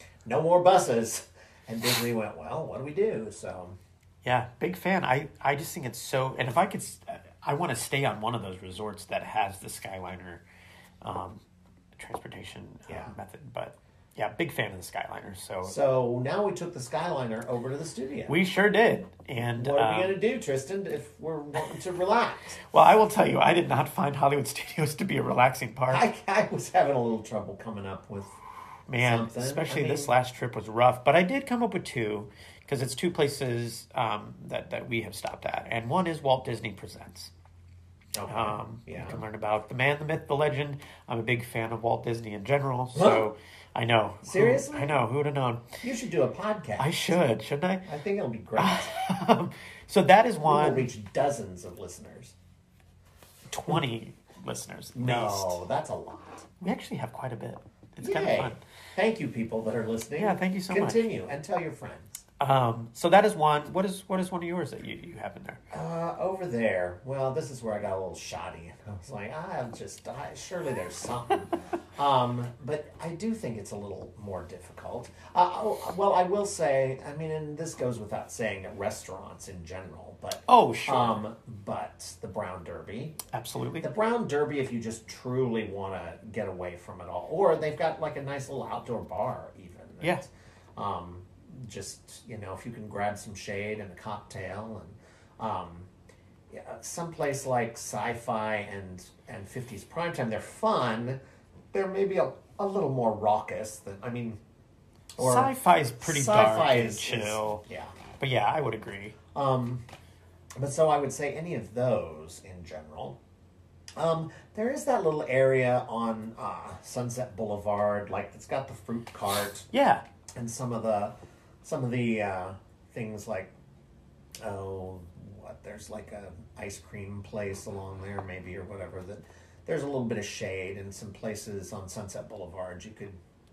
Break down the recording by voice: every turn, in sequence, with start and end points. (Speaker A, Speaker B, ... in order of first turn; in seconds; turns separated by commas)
Speaker A: 0.2-3.8, Speaker B: 4.2-10.4, Speaker B: 11.0-11.4, Speaker B: 12.0-15.8, Speaker A: 12.9-13.1, Speaker A: 15.6-18.4, Speaker B: 18.3-20.2, Speaker A: 19.6-22.6, Speaker B: 22.7-26.1, Speaker A: 25.9-28.4, Speaker B: 28.9-37.3, Speaker A: 29.0-30.1, Speaker A: 38.1-39.2, Speaker B: 38.3-45.8, Speaker A: 43.0-43.3, Speaker A: 44.2-45.0, Speaker A: 45.8-47.1, Speaker B: 46.8-47.9, Speaker A: 47.9-49.0, Speaker B: 48.6-50.9, Speaker A: 50.4-52.4, Speaker B: 53.5-55.6, Speaker A: 55.0-56.5, Speaker B: 56.6-58.6, Speaker A: 58.0-62.2, Speaker B: 60.2-61.0, Speaker B: 62.4-65.6, Speaker A: 65.7-83.2, Speaker B: 80.5-81.2, Speaker B: 83.3-83.9, Speaker A: 83.8-90.2, Speaker A: 90.8-95.9, Speaker A: 96.5-101.2, Speaker A: 101.7-104.4, Speaker A: 105.2-107.9, Speaker B: 105.2-107.6, Speaker B: 108.2-109.2, Speaker A: 109.3-109.8, Speaker A: 110.6-113.2, Speaker A: 114.0-119.7, Speaker B: 119.7-120.0, Speaker A: 120.4-123.5, Speaker A: 124.4-133.2